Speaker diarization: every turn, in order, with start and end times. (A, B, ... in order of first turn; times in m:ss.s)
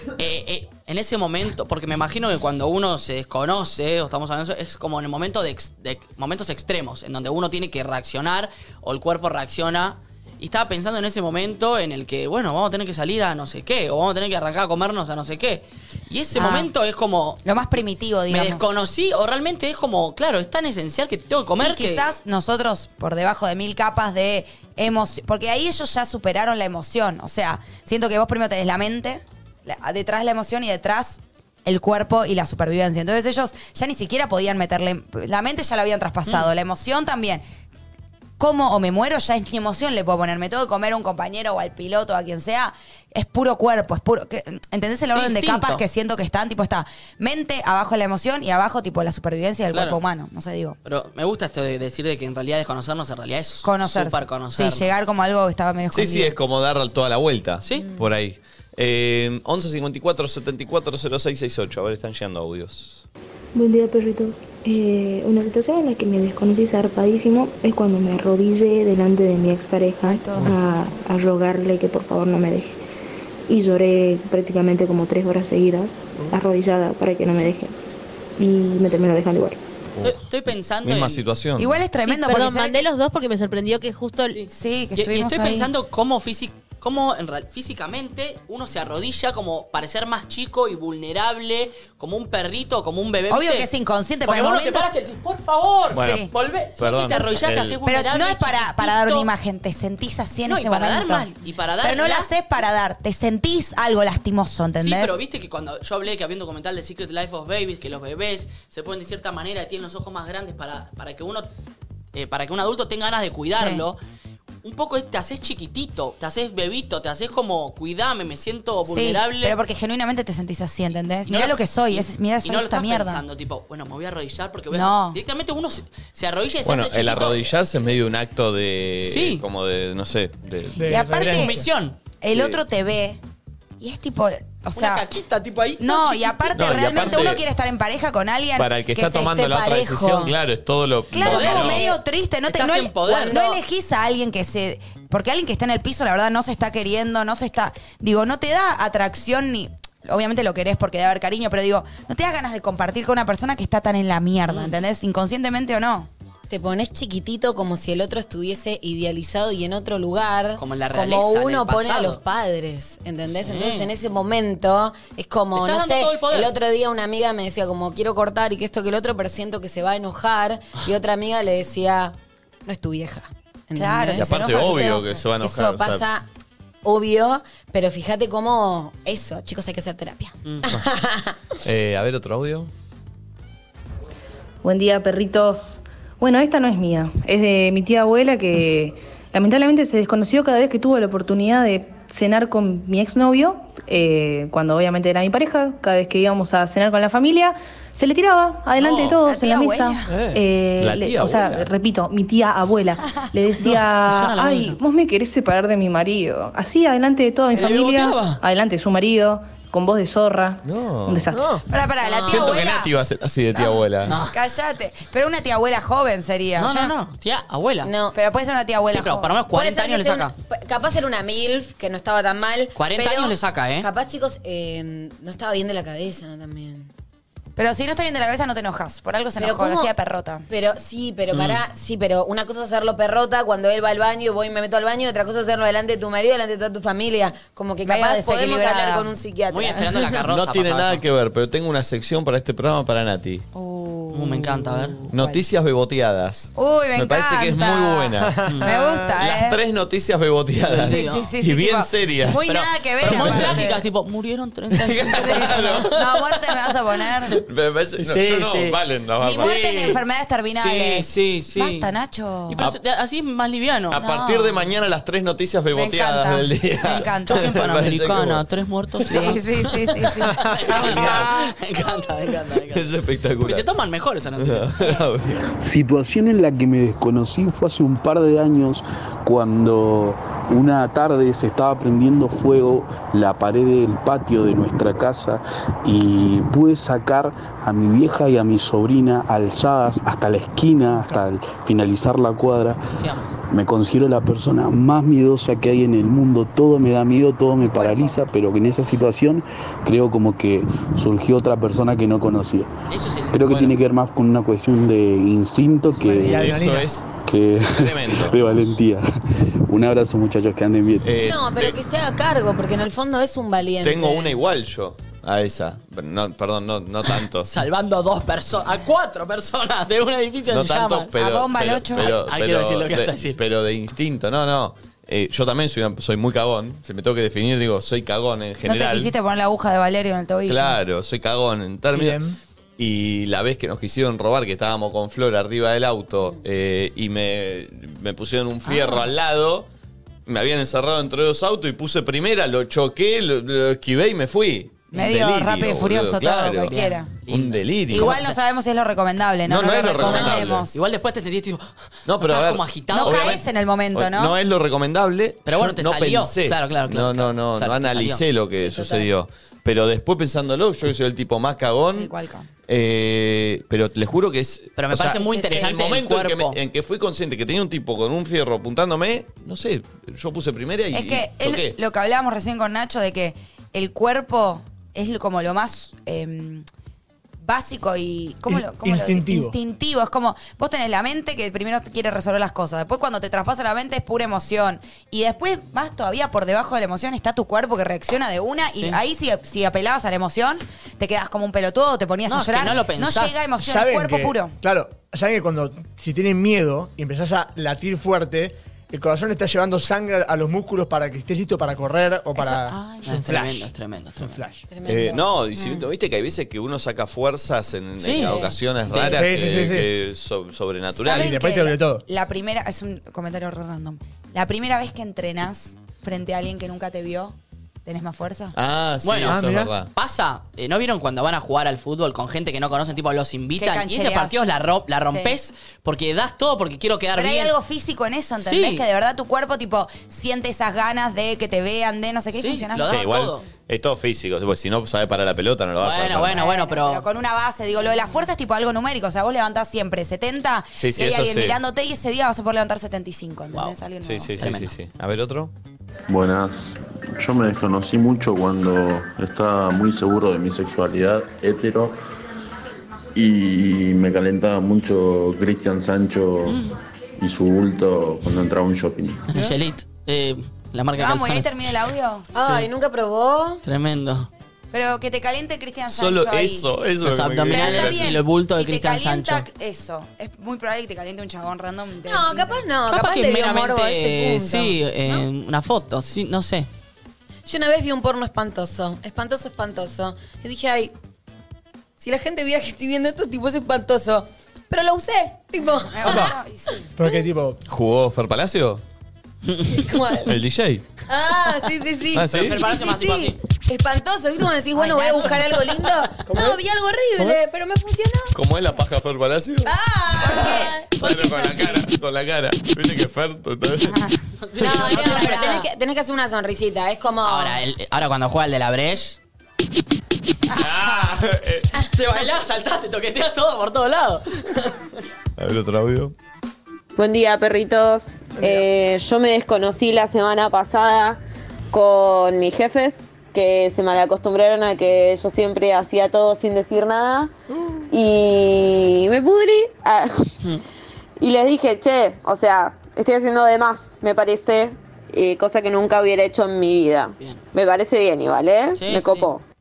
0:00.2-0:17.4 A
0:16.3-0:16.7 B
0:17.4-0:18.7 B
0:18.3-0:22.1 A
0:21.6-0:37.4 B
0:38.4-0:50.8 B
0:45.1-0:45.8 A
0:49.7-0:50.0 A
0:50.8-0:54.9 A
0:53.6-0:56.4 B
0:55.9-1:03.0 C
0:57.6-0:57.9 A
0:57.8-0:58.0 D
1:03.6-1:12.7 E
1:10.0-1:11.0 B
1:13.5-1:17.7 E
1:18.4-1:19.6 E
1:20.0-1:20.2 C
1:20.0-1:21.2 A
1:20.8-1:21.8 C
1:21.6-1:22.8 B
1:22.0-1:24.4 F
1:24.4-1:33.7 A
1:24.5-1:25.7 B
1:33.3-1:34.9 B
1:34.2-1:39.3 A
1:35.9-1:36.2 C
1:35.9-1:36.3 B
1:36.8-1:37.8 C
1:37.8-1:41.3 B
1:40.4-1:42.3 A
1:41.8-1:45.2 B
1:44.8-1:51.5 A
1:52.1-1:54.0 A
1:53.6-1:53.8 B
1:54.6-1:59.6 A
1:58.8-2:03.2 B
2:01.3-2:07.5 A
2:04.7-2:05.2 B
2:06.6-2:10.9 C
2:09.0-2:09.4 A
2:10.8-2:11.6 G
2:10.9-2:11.6 B
2:11.1-2:12.0 A
2:12.2-2:13.2 B
2:12.3-2:12.6 C
2:13.8-2:15.0 B
2:14.7-2:16.5 A
2:15.8-2:19.4 B
2:16.5-2:17.4 C
2:18.6-2:21.8 C
2:19.1-2:20.3 D
2:21.1-2:36.1 B
2:21.2-2:23.4 A
2:23.0-2:23.6 D
2:36.5-2:56.2 D
2:40.6-2:42.2 A
2:43.3-2:43.9 A
2:45.6-2:46.5 A
2:53.7-2:55.1 B
2:54.1-2:56.0 C
2:56.8-3:01.4 D
3:01.6-3:02.7 C
3:04.6-3:31.6 H
3:18.8-3:19.2 C
3:19.2-3:20.1 B
3:20.1-3:20.4 G
3:20.8-3:21.7 C
3:24.0-3:24.8 A
3:27.5-3:28.4 A
3:30.6-3:31.3 C
3:31.3-3:31.6 G
3:31.6-3:32.9 B
3:32.2-3:34.2 C
3:32.2-3:32.6 A
3:33.5-3:36.9 B
3:34.0-3:34.4 A
3:36.6-3:37.9 A
3:37.8-3:38.2 D
3:38.1-3:39.4 B
3:38.9-3:40.3 A
3:39.5-3:46.9 D
3:42.8-3:43.9 A
3:47.6-3:50.4 B
3:49.4-3:49.9 D
3:50.5-4:00.1 D
3:51.3-3:51.6 A
3:57.8-3:59.1 B
3:59.5-4:01.0 A
4:00.3-4:03.4 C
4:03.5-4:05.4 B
4:04.1-4:05.0 A
4:05.1-4:08.4 C
4:06.5-4:09.6 B
4:08.3-4:08.9 G
4:08.4-4:08.7 A
4:09.2-4:12.4 C
4:10.6-4:11.3 A
4:10.8-4:13.8 B
4:12.4-4:16.4 A
4:13.0-4:13.7 C
4:14.7-4:15.9 C
4:15.0-4:17.4 B
4:17.4-4:20.0 C
4:18.0-4:18.7 A
4:18.1-4:18.7 G
4:19.2-4:22.6 B
4:19.4-4:20.0 A
4:20.6-4:21.9 A
4:22.5-4:24.0 A
4:23.9-4:28.4 C
4:23.9-4:24.7 B
4:25.7-4:28.1 B
4:26.9-4:35.0 A
4:29.0-4:31.2 B
4:30.7-4:31.4 C
4:32.7-4:33.6 C
4:34.4-4:35.5 C
4:35.6-4:52.8 I
4:52.9-4:53.3 A
4:53.5-5:02.7 I
5:02.9-5:03.8 A
5:03.3-5:06.7 I
5:06.0-5:06.9 G
5:06.2-5:07.0 C
5:07.2-5:09.0 I
5:07.7-5:08.4 C
5:09.7-5:11.1 I
5:11.0-5:11.8 C
5:11.2-5:14.4 D
5:13.8-5:17.5 C
5:17.0-5:21.1 A
5:20.5-5:29.1 C
5:21.1-5:22.1 B
5:21.9-5:23.4 A
5:28.6-5:30.8 B
5:30.5-5:32.2 C
5:31.9-5:32.4 G
5:32.8-5:39.7 C
5:38.6-5:39.0 B
5:40.2-5:48.2 C
5:44.9-5:47.1 B
5:46.6-5:48.4 A
5:47.9-5:50.8 B
5:49.4-5:50.6 C
5:50.0-5:53.4 A
5:52.0-6:02.1 C
5:52.9-5:54.4 B
5:55.4-5:58.2 A
5:58.6-5:59.1 D
6:01.9-6:02.5 B
6:02.7-6:11.8 C
6:04.8-6:06.6 A
6:05.2-6:05.6 D
6:10.9-6:16.7 B
6:17.4-6:34.5 B
6:18.5-6:19.6 G
6:28.7-6:29.0 A
6:32.3-6:33.4 A
6:33.6-6:44.6 G
6:42.4-6:43.4 B
6:43.0-6:44.5 A
6:44.7-6:45.8 D
6:44.8-6:51.3 C
6:48.0-6:49.2 A
6:48.2-6:48.5 D
6:49.0-6:49.9 G
6:50.9-6:58.6 B
6:51.1-6:52.0 G
6:58.5-6:59.9 C
6:59.0-7:07.5 A
6:59.2-6:59.7 G
7:03.6-7:04.4 B
7:05.0-7:05.4 B
7:07.1-7:13.0 B
7:08.4-7:08.8 A
7:12.3-7:13.4 A
7:12.9-7:16.4 C
7:15.8-7:17.0 A
7:16.3-7:24.3 B
7:20.8-7:21.6 C
7:24.0-7:25.5 C
7:24.4-7:24.7 A
7:26.1-7:31.9 J
7:33.1-7:36.6 J
7:36.4-7:36.8 A
7:37.2-7:39.3 J
7:39.3-7:41.6 A
7:41.0-7:42.3 B
7:42.3-7:43.6 D
7:42.4-7:42.7 A
7:43.6-7:44.3 A
7:44.7-7:46.7 B
7:45.9-7:48.2 C
7:47.0-7:49.4 A
7:47.5-7:52.6 B
7:52.0-7:55.2 D
7:52.9-7:56.7 A
7:57.4-8:00.9 D
8:02.0-8:06.3 D
8:05.9-8:06.9 B
8:06.0-8:06.4 G
8:07.0-8:07.6 G
8:07.6-8:08.8 C
8:09.4-8:09.9 A
8:09.7-8:10.4 D
8:10.3-8:10.8 C
8:11.1-8:18.3 D
8:12.1-8:12.6 C
8:12.3-8:13.4 A
8:14.7-8:15.5 B
8:16.3-8:16.6 G
8:18.3-8:19.7 C
8:19.6-8:20.9 D
8:20.2-8:21.8 B
8:20.2-8:24.0 C
8:23.8-8:25.6 B
8:24.4-8:25.6 A
8:24.6-8:27.6 D
8:27.2-8:29.2 A
8:30.5-8:31.8 C
8:31.7-8:34.9 A
8:35.4-8:36.1 C
8:37.0-8:41.2 K
8:38.3-8:38.6 G
8:41.7-8:47.3 K
8:47.5-8:47.8 G
8:47.9-8:50.3 K
8:51.2-8:59.4 K
8:58.8-8:59.3 A